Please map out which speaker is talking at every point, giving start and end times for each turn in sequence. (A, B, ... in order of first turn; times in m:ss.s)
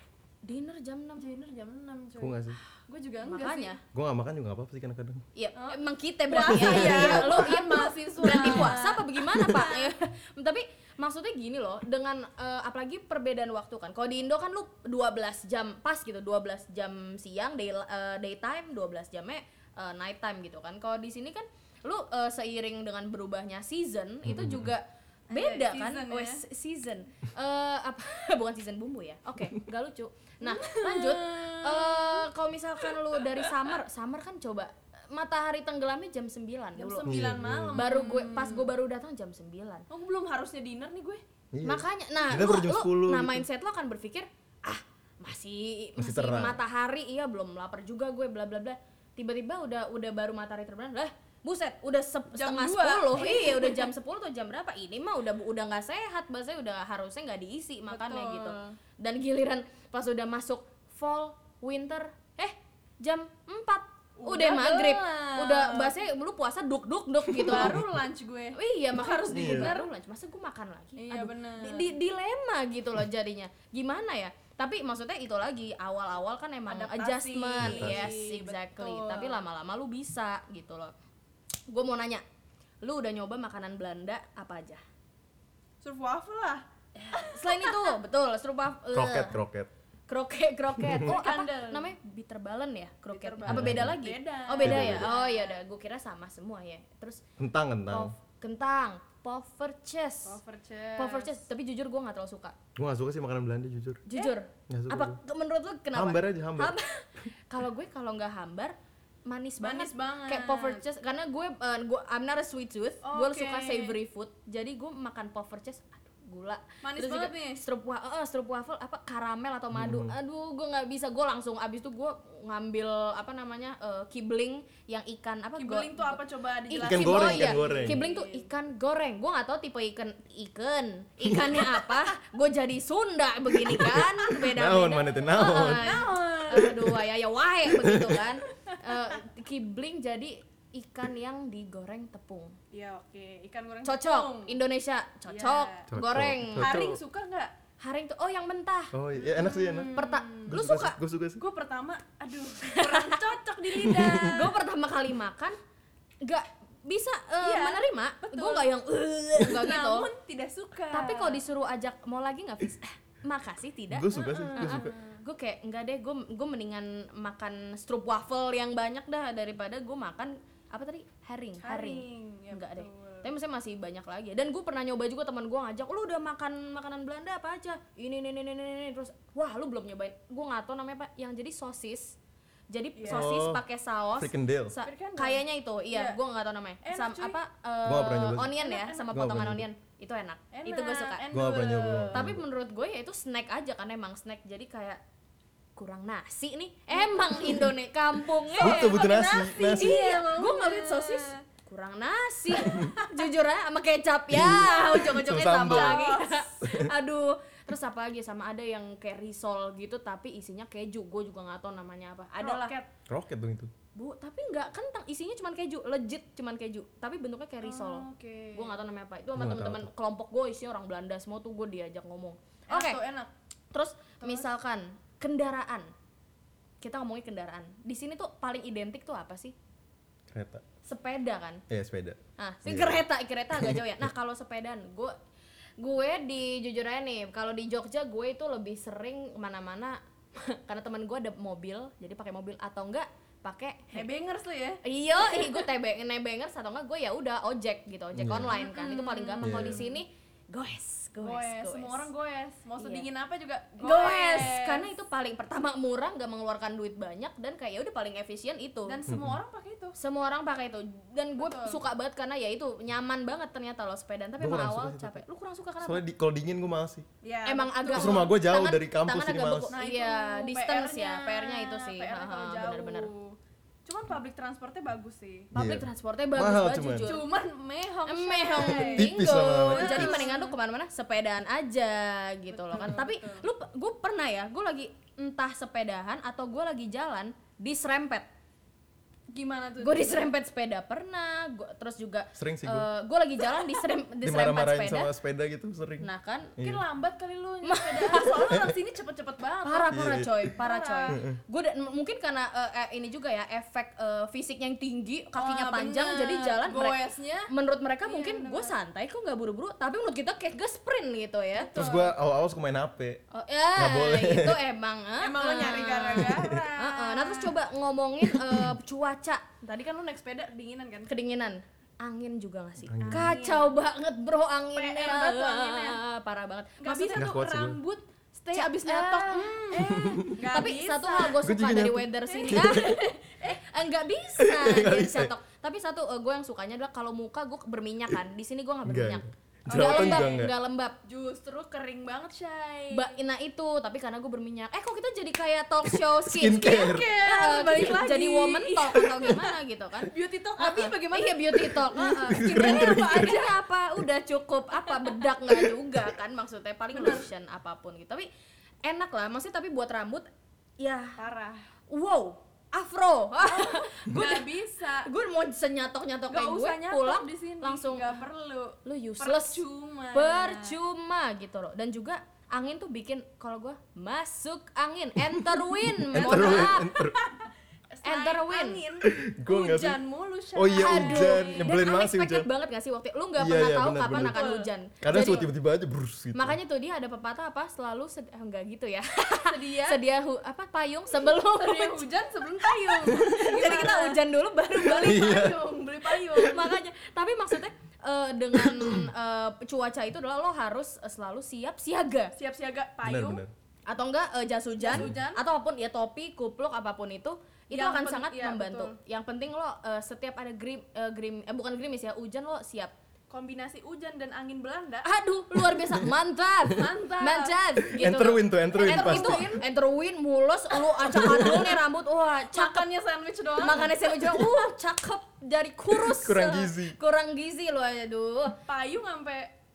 0:00.4-0:01.3 A
0:01.2-0:03.8 B
0:02.2-0:02.6 C
0:03.2-0:03.8 A
0:03.9-0:05.2 C
0:05.3-0:37.2 A
0:06.3-0:09.9 B
0:06.5-0:07.5 C
0:08.3-0:08.7 C
0:24.2-0:24.7 C
0:25.3-0:26.4 B
0:30.4-0:32.2 B
0:32.8-0:33.5 B
0:36.8-0:38.7 B
0:37.0-0:37.9 C
0:37.7-0:39.9 A
0:39.9-0:41.2 B
0:41.5-0:43.4 C
0:41.6-1:07.8 A
0:46.0-0:46.6 C
0:52.3-0:53.9 B
0:57.9-0:58.8 B
1:04.2-1:06.0 B
1:07.3-1:09.9 B
1:08.5-1:20.9 A
1:09.3-1:09.8 C
1:11.0-1:11.8 B
1:16.7-1:19.4 B
1:17.6-1:18.1 C
1:21.7-1:22.2 A
1:22.8-1:24.8 A
1:25.8-1:27.9 B
1:26.9-1:29.4 A
1:28.9-1:29.7 C
1:30.1-1:37.2 A
1:31.0-1:31.9 B
1:33.1-1:35.6 B
1:33.4-1:34.0 C
1:34.6-1:35.1 C
1:37.4-1:38.1 C
1:37.9-1:40.4 A
1:40.2-1:41.4 B
1:41.0-1:42.5 A
1:42.8-1:44.0 C
1:44.1-2:22.5 A
1:44.7-1:45.2 C
1:45.9-1:46.8 C
1:49.6-1:50.8 B
1:53.0-1:54.0 B
1:56.8-1:57.6 B
1:59.7-2:00.1 C
2:05.6-2:08.5 B
2:06.8-2:08.0 C
2:13.6-2:15.9 C
2:15.4-2:16.8 B
2:17.6-2:18.3 C
2:22.7-2:24.6 B
2:23.8-2:26.8 A
2:25.3-2:25.9 B
2:25.9-2:27.0 C
2:26.6-2:27.5 B
2:27.8-2:28.9 A
2:28.9-2:31.4 C
2:29.2-2:30.5 B
2:29.9-2:31.0 A
2:31.4-2:34.6 B
2:32.6-2:35.6 A
2:36.2-2:40.1 A
2:37.4-2:38.7 B
2:39.4-2:41.4 B
2:40.9-3:02.2 A
2:43.9-2:45.0 C
2:44.2-2:45.2 B
2:51.6-2:53.3 B
3:02.7-3:11.2 A
3:03.0-3:03.3 B
3:03.1-3:03.6 C
3:04.2-3:04.7 C
3:04.8-3:06.2 B
3:06.8-3:07.4 B
3:07.8-3:08.5 C
3:08.4-3:09.2 B
3:09.1-3:09.7 C
3:10.5-3:12.3 B
3:11.3-3:12.4 C
3:12.1-3:15.0 A
3:15.8-3:32.8 A
3:17.0-3:17.7 B
3:18.6-3:20.0 C
3:18.6-3:21.4 B
3:22.6-3:23.2 B
3:24.3-3:26.1 C
3:24.4-3:26.5 B
3:26.6-3:26.9 C
3:32.4-3:32.9 B
3:33.1-3:33.7 C
3:33.9-3:43.0 A
3:37.6-3:38.8 B
3:39.3-3:39.9 C
3:42.7-3:43.3 B
3:43.7-3:45.9 A
3:44.2-3:44.5 B
3:46.8-3:49.5 A
3:50.3-3:50.6 C
3:50.8-3:51.6 A
3:51.7-3:53.0 C
3:52.4-3:55.2 A
3:53.6-3:54.1 C
3:55.8-4:04.1 A
4:03.9-4:05.6 B
4:04.8-4:12.1 A
4:08.1-4:08.5 C
4:08.5-4:09.8 B
4:09.4-4:09.8 C
4:11.2-4:14.9 B
4:12.8-4:13.0 A
4:13.8-4:19.0 A
4:18.8-4:19.9 B
4:19.1-4:19.4 C
4:20.0-4:26.0 A
4:21.4-4:21.8 B
4:24.4-4:25.2 C
4:25.8-4:27.0 C
4:27.2-4:28.3 B
4:27.4-4:33.1 A
4:27.9-4:29.7 C
4:29.7-4:35.5 B
4:35.5-4:37.3 A
4:35.5-4:37.1 C
4:37.0-4:40.5 B
4:38.1-4:48.3 A
4:38.6-4:40.3 C
4:42.5-4:43.4 B
4:49.3-4:50.3 B
4:49.8-4:55.1 A
4:52.3-4:52.9 C
4:54.2-4:56.8 C
4:56.0-4:56.6 A
4:56.6-5:01.2 B
4:57.6-4:58.5 A
4:59.6-5:11.8 A
4:59.9-5:00.5 C
5:01.1-5:01.4 C
5:05.4-5:07.5 B
5:08.0-5:08.8 B
5:11.5-5:12.1 B
5:11.7-5:13.2 C
5:13.3-5:19.5 A
5:13.8-5:14.6 C
5:15.2-5:17.6 B
5:16.2-5:16.6 C
5:19.6-5:21.1 B
5:21.1-5:27.3 A
5:22.8-5:23.3 C
5:23.0-5:23.8 B
5:24.7-5:26.0 B
5:26.8-5:31.4 B
5:27.2-5:27.8 C
5:28.5-5:41.0 A
5:29.9-5:30.2 C
5:31.4-5:33.0 C
5:32.3-5:33.6 B
5:34.4-5:35.3 C
5:38.8-5:40.5 C
5:39.7-5:40.5 B
5:41.0-5:43.2 B
5:42.9-5:58.3 A
5:46.3-5:47.1 C
5:46.6-5:53.6 B
5:52.2-5:53.4 C
5:54.8-5:55.2 B
5:56.9-5:57.3 B
5:58.8-6:01.2 A
6:01.2-6:01.6 B
6:01.9-6:04.5 A
6:03.4-6:05.1 B
6:05.0-6:08.2 A
6:06.3-6:10.8 B
6:08.8-6:16.9 A
6:15.9-6:17.2 C
6:16.1-6:21.7 B
6:18.0-6:18.8 A
6:19.0-6:20.0 C
6:20.5-6:22.5 C
6:20.8-6:25.5 A
6:23.4-6:24.5 C
6:24.1-6:24.7 B
6:25.0-6:26.6 C
6:26.3-6:32.1 A
6:29.4-6:30.0 B
6:31.2-6:34.2 B
6:32.7-6:35.5 A
6:34.7-6:36.7 B
6:35.0-6:35.7 C
6:36.1-6:42.3 A
6:42.4-6:43.4 B
6:43.0-6:43.5 C
6:43.9-6:52.9 A
6:44.8-6:45.4 B
6:47.7-6:49.0 B
6:53.3-6:55.1 B
6:55.0-7:02.8 A
6:56.7-6:57.9 B
6:57.9-6:59.6 C
6:58.8-6:59.6 B
7:00.8-7:01.8 B
7:02.5-7:04.7 B
7:03.6-7:08.6 A
7:06.0-7:07.0 C
7:08.6-7:09.5 B